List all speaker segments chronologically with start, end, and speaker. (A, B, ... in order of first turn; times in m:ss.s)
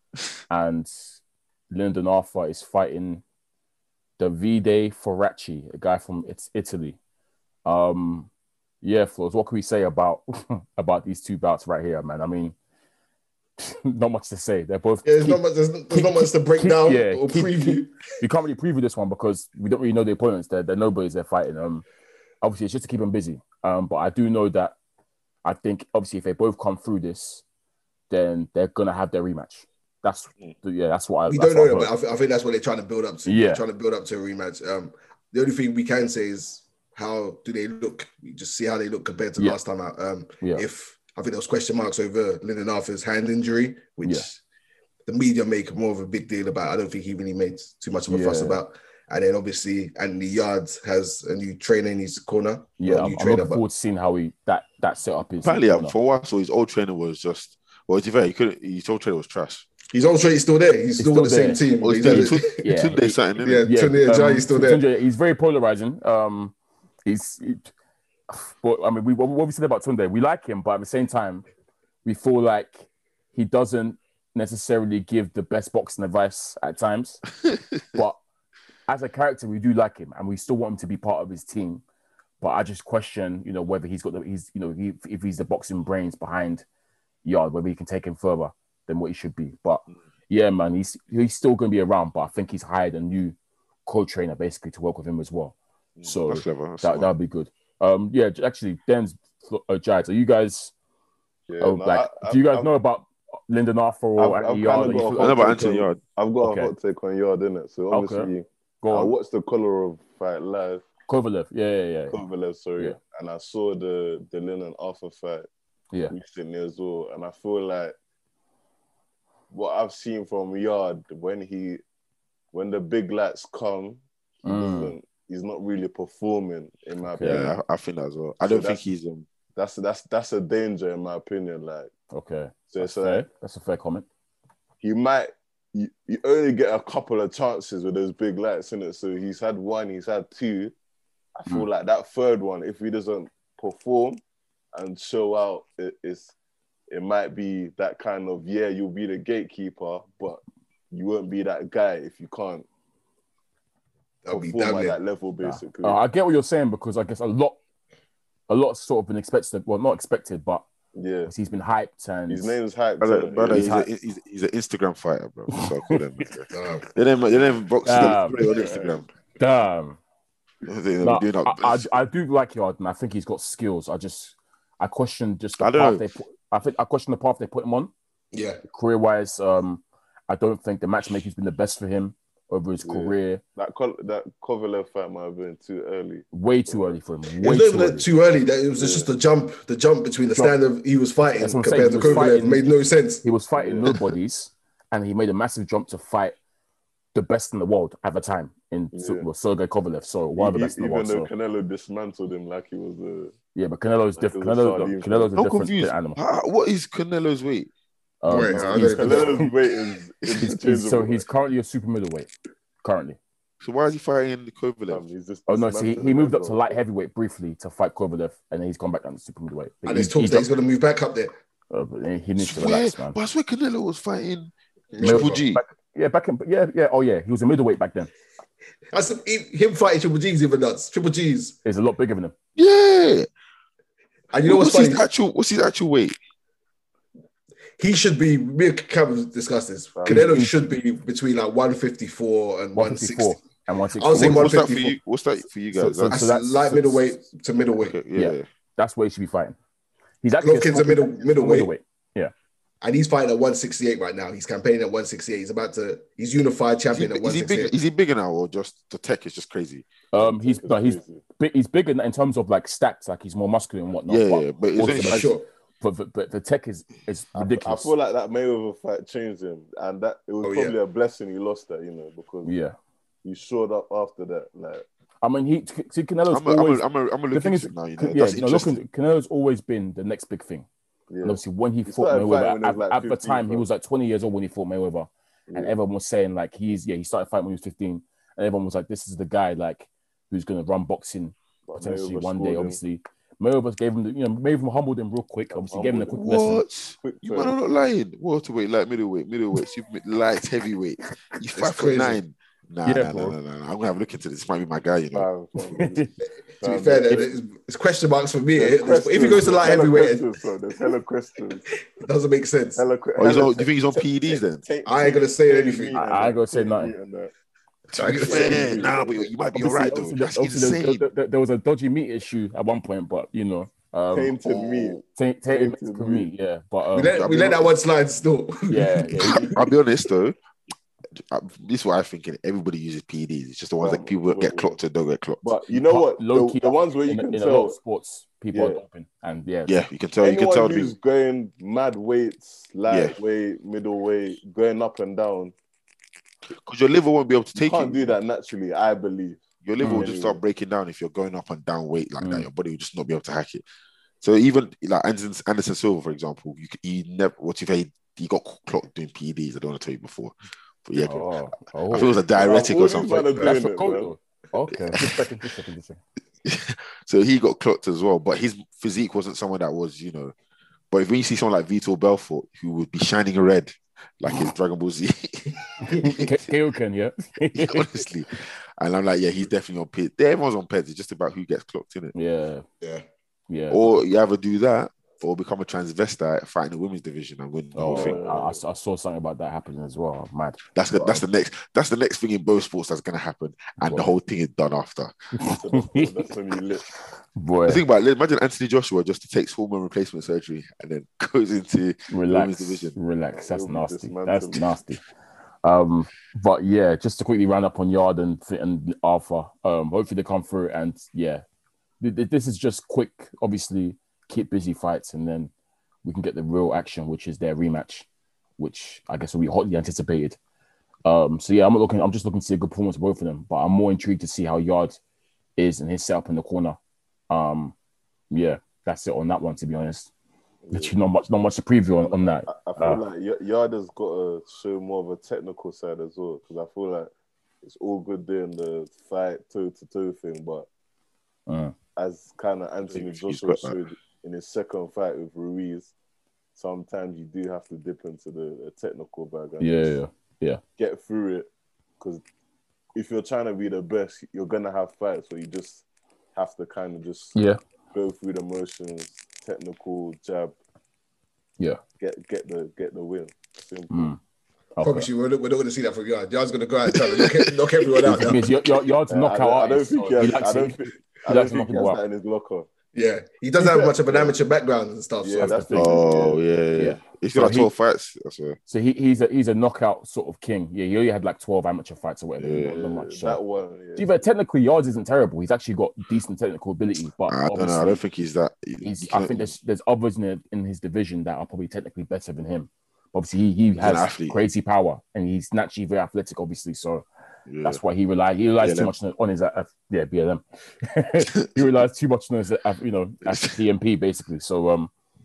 0:00.5-0:00.9 A
0:01.7-0:03.2 A
0:04.2-0:07.0 A
0:07.6-0:08.3 A
0:08.8-0:12.5 A
0:13.6-0:15.4 A
0:15.0-0:18.0 B
0:15.9-0:21.8 A
0:22.4-0:24.7 A
0:25.4-0:27.4 A
0:28.1-0:31.9 A
0:31.3-0:44.4 B
0:33.2-0:33.6 A
0:45.1-0:53.6 B
0:48.1-0:48.6 A
0:52.8-0:56.0 A
0:55.4-0:59.6 C
0:59.9-1:02.6 B
1:01.0-1:06.5 A
1:01.8-1:03.6 C
1:03.4-1:04.8 B
1:07.0-1:07.7 A
1:08.3-1:11.4 A
1:12.0-1:17.2 A
1:17.9-1:18.2 A
1:18.9-1:21.8 A
1:22.4-1:26.6 A
1:27.2-1:40.7 A
1:36.2-1:37.1 C
1:41.5-1:42.7 D
1:41.6-1:45.7 A
1:44.2-1:50.8 D
1:45.2-1:46.0 C
1:46.4-1:46.7 A
1:47.9-1:48.3 A
1:48.8-1:49.1 A
1:51.1-1:52.2 A
1:52.1-1:55.5 D
1:56.1-1:57.9 D
1:59.5-2:01.8 D
2:02.5-2:07.5 D
2:04.4-2:04.9 A
2:07.1-2:07.5 A
2:07.2-2:09.2 C
2:08.4-2:08.8 D
2:09.6-2:11.9 D
2:12.1-2:14.0 A
2:12.7-2:13.2 D
2:14.8-2:20.7 D
2:21.4-2:24.2 D
2:24.7-2:26.3 D
2:26.9-2:32.6 D
2:34.2-2:35.0 B
2:34.3-2:36.0 D
2:35.4-2:37.6 A
2:38.5-2:40.6 A
2:40.9-2:41.3 D
2:41.3-2:42.5 A
2:42.3-2:43.8 D
2:43.0-2:49.1 C
2:43.5-2:43.9 A
2:46.5-2:46.8 B
2:47.8-2:48.4 A
2:48.4-2:48.9 D
2:49.4-2:50.0 A
2:50.6-2:51.8 C
2:51.0-2:57.9 A
2:55.6-2:56.1 C
2:58.3-2:58.6 B
2:58.6-3:03.4 A
3:02.8-3:06.8 D
3:06.3-3:08.1 A
3:07.4-3:13.2 B
3:08.7-3:09.1 D
3:11.4-3:12.6 A
3:13.2-3:16.4 A
3:13.6-3:13.8 D
3:17.1-3:21.3 A
3:18.9-3:19.3 D
3:20.4-3:23.3 D
3:23.5-3:26.2 A
3:24.2-3:25.3 D
3:25.4-3:27.7 C
3:28.2-3:29.5 A
3:28.3-3:29.4 B
3:28.3-3:31.2 D
3:30.4-3:32.3 A
3:32.8-3:33.2 A
3:33.6-3:35.0 C
3:34.9-3:36.8 D
3:35.5-3:40.5 A
3:39.8-3:41.3 B
3:41.7-3:43.2 A
3:42.4-3:45.6 C
3:44.9-3:45.4 B
3:45.0-3:48.1 A
3:48.9-3:51.6 B
3:51.6-3:52.3 A
3:52.6-3:53.2 C
3:54.3-3:55.0 B
3:54.4-3:56.2 C
3:57.8-4:03.4 B
4:00.0-4:00.3 D
4:00.1-4:00.6 A
4:02.7-4:04.6 A
4:04.0-4:04.9 B
4:04.1-4:06.2 C
4:05.7-4:07.1 A
4:06.1-4:08.0 B
4:07.8-4:08.4 C
4:08.1-4:09.6 A
4:10.2-4:12.3 A
4:10.4-4:11.7 B
4:12.8-4:17.7 B
4:16.9-4:19.9 C
4:20.1-4:27.9 A
4:20.1-4:21.2 D
4:24.1-4:25.4 C
4:24.8-4:25.4 B
4:27.3-4:32.5 D
4:30.4-4:30.7 B
4:32.4-4:32.7 A
4:33.2-4:34.8 D
4:35.2-4:40.6 A
4:36.3-4:38.8 C
4:41.1-4:43.7 D
4:41.2-4:56.6 A
4:45.5-4:45.7 D
4:51.7-4:52.8 D
4:55.5-4:56.2 D
4:56.0-5:05.3 C
4:57.0-4:57.5 D
5:01.6-5:02.2 B
5:02.8-5:03.3 A
5:05.1-5:06.0 D
5:05.7-5:06.1 A
5:06.6-5:07.3 D
5:06.6-5:10.2 B
5:08.6-5:11.6 D
5:12.0-5:12.8 B
5:12.8-5:17.3 D
5:13.2-5:14.6 C
5:14.8-5:16.0 B
5:15.9-5:16.9 A
5:17.9-5:21.1 C
5:17.9-5:18.9 B
5:18.2-5:19.3 D
5:19.5-5:24.4 A
5:24.1-5:26.3 D
5:24.4-5:25.0 C
5:25.1-5:27.2 A
5:26.9-5:29.5 B
5:27.0-5:27.7 C
5:28.7-5:29.6 A
5:29.1-5:30.4 C
5:31.1-5:35.4 C
5:33.8-5:34.8 D
5:35.4-5:37.8 D
5:35.7-5:39.8 A
5:38.5-5:38.8 D
5:39.6-5:40.9 C
5:40.2-5:45.5 D
5:42.9-5:43.2 C
5:46.5-5:48.2 C
5:47.5-5:50.4 D
5:49.6-5:53.6 C
5:49.8-5:50.1 A
5:52.2-5:52.5 A
5:54.2-6:03.3 C
6:01.0-6:02.2 A
6:02.3-6:04.1 D
6:03.4-6:06.0 A
6:06.4-6:10.3 C
6:10.9-6:16.4 C
6:15.9-6:18.0 A
6:17.5-6:22.1 C
6:22.1-6:22.6 A
6:23.5-6:24.0 A
6:23.7-6:28.2 C
6:27.7-6:31.1 A
6:27.8-6:28.6 D
6:30.7-6:35.1 C
6:33.8-6:34.1 A
6:35.4-6:36.1 A
6:35.4-6:36.8 D
6:37.3-6:37.8 A
6:37.7-6:43.0 C
6:42.1-6:45.0 A
6:43.3-6:44.7 D
6:45.6-6:51.4 A
6:52.0-6:55.5 A
6:56.0-6:58.1 A
6:58.6-7:00.4 A
7:01.0-7:05.0 A
7:05.6-7:06.8 A
7:07.3-7:07.7 A
7:08.3-7:10.1 A
7:10.6-7:10.9 D
7:10.7-7:13.0 A
7:12.1-7:17.1 D
7:17.6-7:20.7 D
7:21.5-7:21.7 A
7:22.0-7:25.9 D
7:22.9-7:23.8 C
7:26.6-7:30.0 D
7:29.6-7:30.6 A
7:30.8-7:31.5 D
7:32.9-7:35.8 D
7:36.3-7:37.4 D
7:37.9-7:40.6 D
7:42.0-7:44.1 D
7:43.9-7:44.2 A
7:44.8-7:45.1 A
7:44.8-7:48.4 B
7:48.0-7:52.0 A
7:49.1-7:52.7 D
7:52.9-7:55.6 B
7:53.6-7:54.3 D
7:55.2-7:56.4 D
7:55.4-7:56.0 A
7:55.7-7:58.6 C
7:56.8-7:57.7 A
7:58.7-8:03.4 A
8:02.4-8:02.7 C
8:02.6-8:04.1 D
8:04.0-8:08.0 A
8:07.3-8:09.5 C
8:08.8-8:17.0 A
8:13.8-8:14.4 C
8:17.5-8:17.8 C
8:17.6-8:24.9 A
8:18.6-8:18.9 C
8:21.3-8:21.8 C
8:23.2-8:23.6 C